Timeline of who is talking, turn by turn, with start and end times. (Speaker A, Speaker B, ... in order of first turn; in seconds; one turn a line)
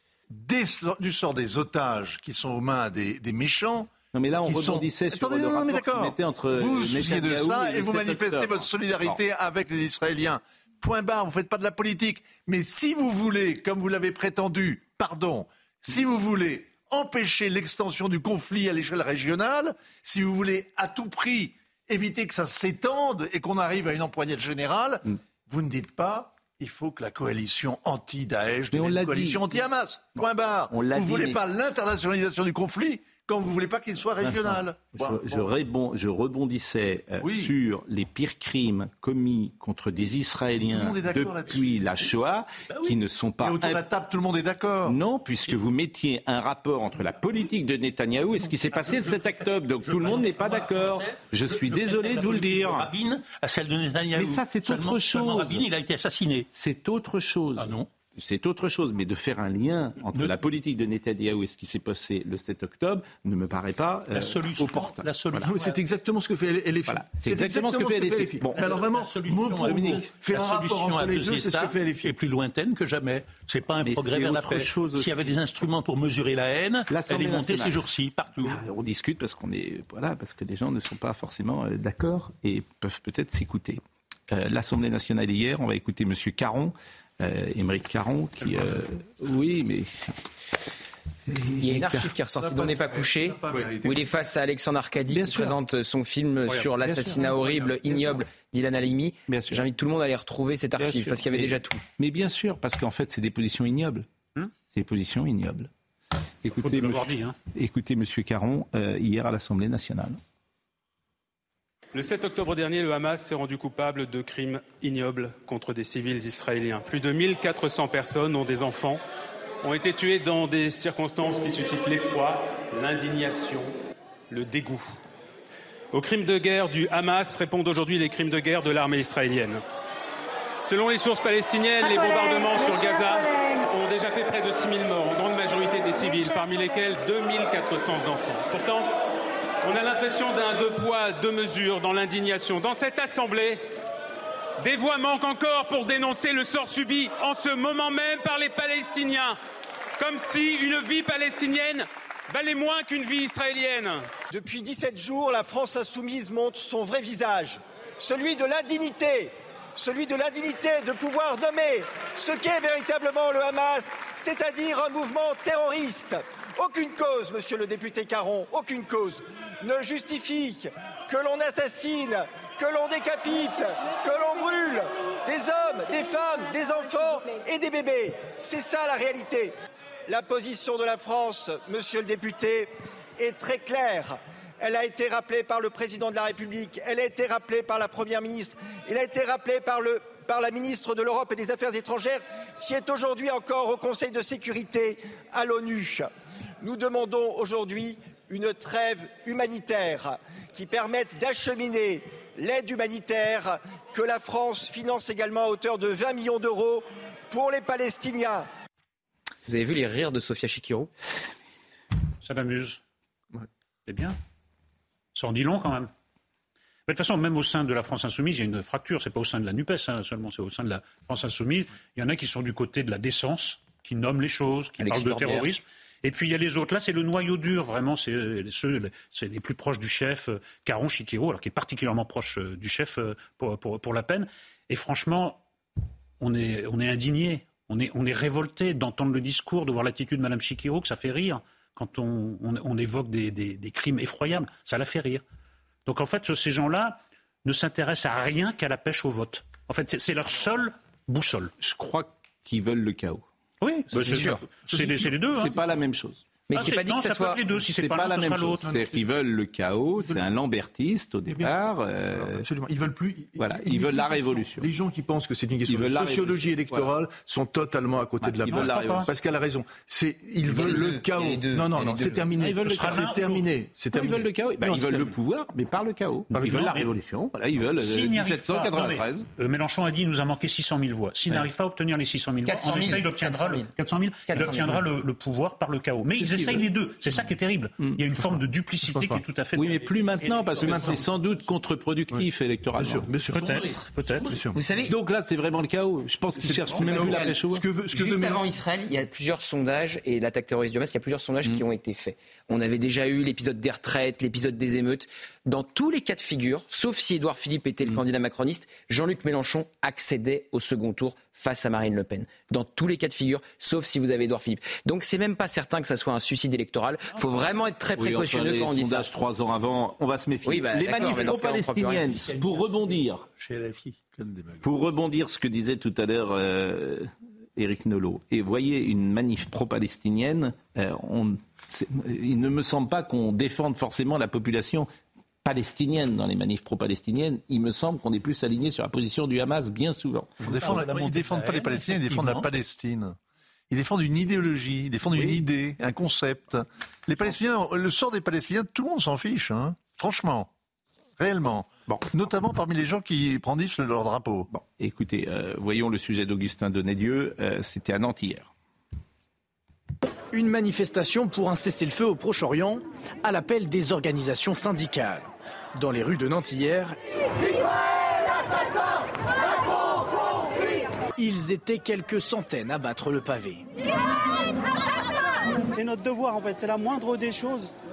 Speaker A: 0.3-3.9
Speaker B: 4.1-9.2
Speaker A: 4.4-35.5
Speaker B: 28.7-29.6
Speaker B: 30.7-31.4
Speaker B: 34.2-43.8
Speaker A: 37.2-37.5
Speaker A: 40.6-41.8
Speaker C: 42.7-43.0
Speaker A: 43.4-45.0
Speaker B: 44.8-52.9
Speaker C: 48.4-56.5
Speaker B: 54.1-55.6
Speaker B: 56.5-65.5
Speaker C: 57.6-57.9
Speaker C: 64.1-65.8
Speaker D: 65.4-72.1
Speaker B: 66.9-68.7
Speaker C: 68.5-78.7
Speaker B: 73.8-75.3
Speaker B: 76.9-77.8
Speaker B: 78.4-90.3
Speaker B: 91.3-92.1
Speaker E: 91.6-101.8
Speaker A: 92.4-94.0
Speaker B: 95.1-95.5
Speaker B: 96.8-97.2
Speaker B: 99.3-99.6
Speaker B: 100.8-104.1
Speaker B: 104.7-105.7
Speaker B: 106.4-110.2
Speaker F: 106.5-107.3
Speaker G: 111.9-119.0
Speaker G: 119.6-123.7
Speaker G: 124.3-125.0
Speaker G: 125.9-129.6
Speaker G: 130.6-139.0
Speaker G: 139.6-143.7
Speaker G: 144.6-149.4
Speaker G: 150.0-154.1
Speaker H: 154.3-179.5
Speaker H: 180.1-196.1
Speaker H: 196.6-208.5
Speaker E: 209.4-210.9
Speaker F: 212.2-212.8
Speaker F: 213.9-214.2
Speaker F: 215.1-215.9
Speaker F: 216.9-235.4
Speaker E: 224.8-225.5
Speaker F: 236.2-245.2
Speaker F: 245.8-251.5
Speaker B: 251.6-253.2
Speaker F: 253.6-255.5
Speaker E: 253.9-254.4
Speaker B: 255.2-256.2
Speaker E: 256.5-257.4
Speaker F: 256.5-258.7
Speaker B: 257.6-262.5
Speaker D: 261.3-261.6
Speaker D: 262.2-275.1
Speaker B: 263.4-264.7
Speaker B: 265.7-266.9
Speaker B: 268.2-269.1
Speaker F: 268.5-269.1
Speaker E: 270.4-272.2
Speaker B: 272.4-273.1
Speaker F: 272.9-273.4
Speaker B: 273.9-279.2
Speaker D: 276.3-276.7
Speaker F: 277.8-289.9
Speaker E: 282.4-283.7
Speaker E: 284.3-284.8
Speaker B: 286.2-286.6
Speaker D: 288.9-289.2
Speaker B: 289.5-293.1
Speaker C: 289.9-291.1
Speaker D: 290.6-291.0
Speaker D: 292.8-294.6
Speaker F: 293.3-294.4
Speaker C: 293.4-293.7
Speaker E: 294.5-294.9
Speaker B: 294.9-297.6
Speaker D: 296.4-298.4
Speaker E: 296.8-297.4
Speaker E: 297.9-319.1
Speaker B: 317.9-323.2
Speaker E: 320.4-322.3
Speaker C: 322.2-324.1
Speaker B: 324.6-334.9
Speaker B: 335.4-340.5
Speaker C: 340.4-342.5
Speaker A: 340.4-343.1
Speaker A: 343.7-350.5
Speaker A: 351.2-354.5
Speaker B: 354.5-358.5
Speaker I: 360.3-366.9
Speaker I: 371.2-373.7
Speaker J: 375.7-377.7